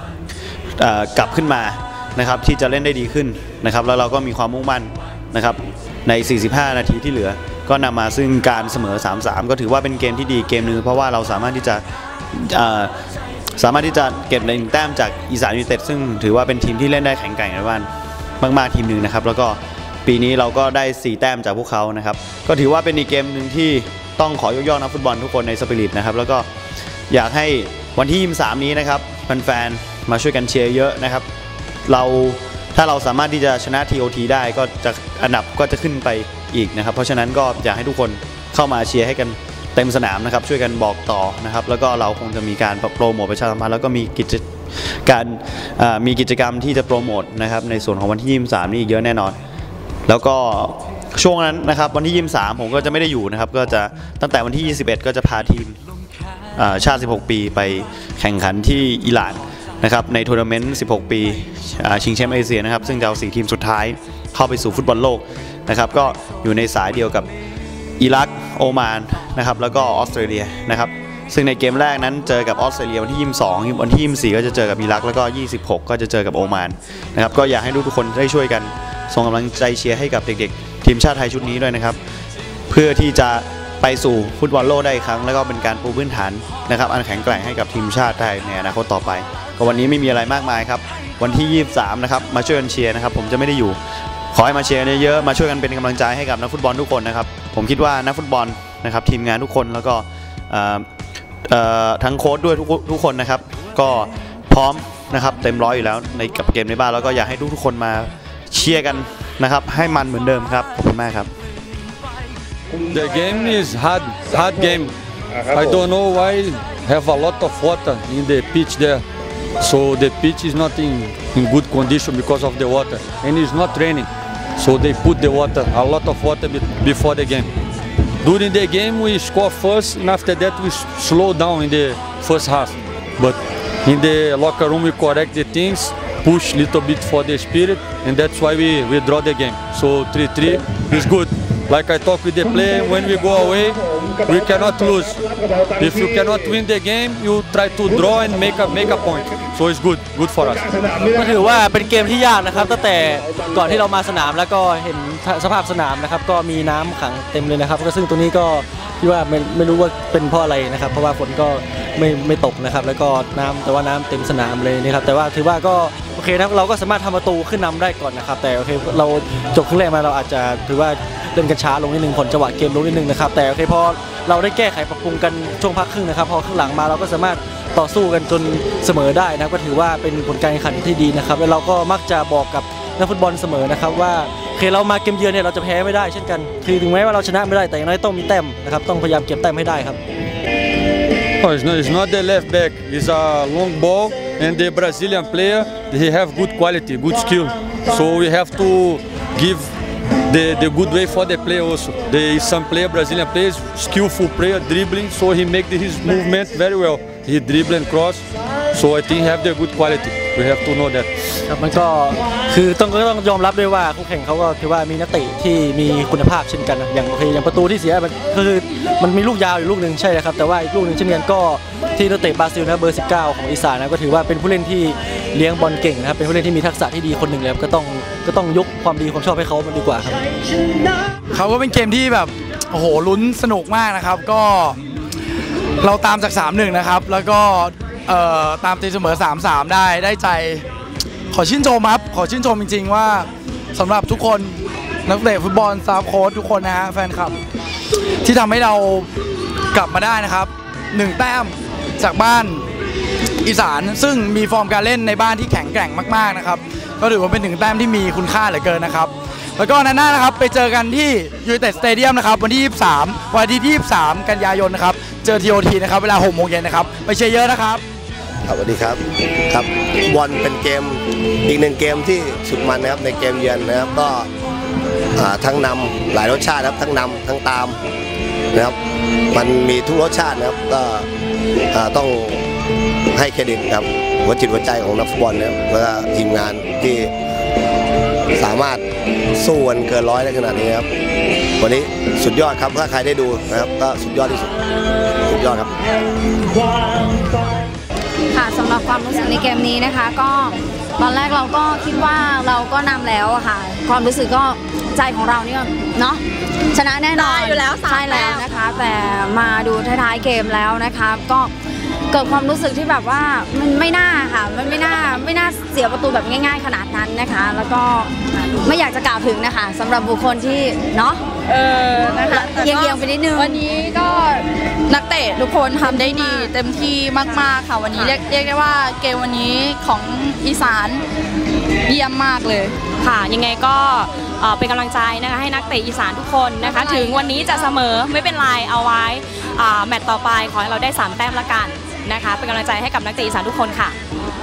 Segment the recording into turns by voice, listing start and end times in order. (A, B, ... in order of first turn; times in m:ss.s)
0:00.8-0:12.9 A
0:13.6-0:17.9 A
0:18.4-0:26.5 A
0:27.1-0:31.2 A
0:31.9-0:49.4 A
0:50.1-0:55.8 A
0:56.6-1:07.3 A
1:08.0-1:22.0 A
1:22.7-1:33.8 A
1:34.3-1:40.8 A
1:41.5-1:51.3 A
1:52.9-1:59.0 B
1:59.6-2:07.5 B
2:08.2-2:30.7 B
2:31.0-3:10.0 C
3:11.4-3:19.7 B
3:20.3-3:31.1 B
3:31.5-3:50.2 C
3:51.3-3:54.8 D
3:55.8-4:00.6 D
4:01.3-4:04.6 D
4:05.1-4:07.4 D
4:08.2-4:09.1 D
4:09.7-4:12.6 D
4:13.4-4:27.8 D
4:28.5-4:34.3 E
4:35.2-4:37.8 E
4:39.3-4:41.0 E
4:41.7-4:42.4 E
4:43.1-4:47.1 E
4:48.3-4:48.8 E
4:49.4-4:50.9 E
4:51.6-4:54.6 E
4:55.2-4:55.7 E
4:58.3-5:11.5 F
5:07.1-5:08.5 G
5:12.1-5:21.3 F
5:21.5-5:22.9 H
5:22.3-5:23.6 F
5:23.4-5:31.0 H
5:25.9-5:26.6 F
5:27.9-5:28.2 G
5:31.9-5:32.7 H
5:33.0-5:44.0 G
5:36.6-5:37.1 H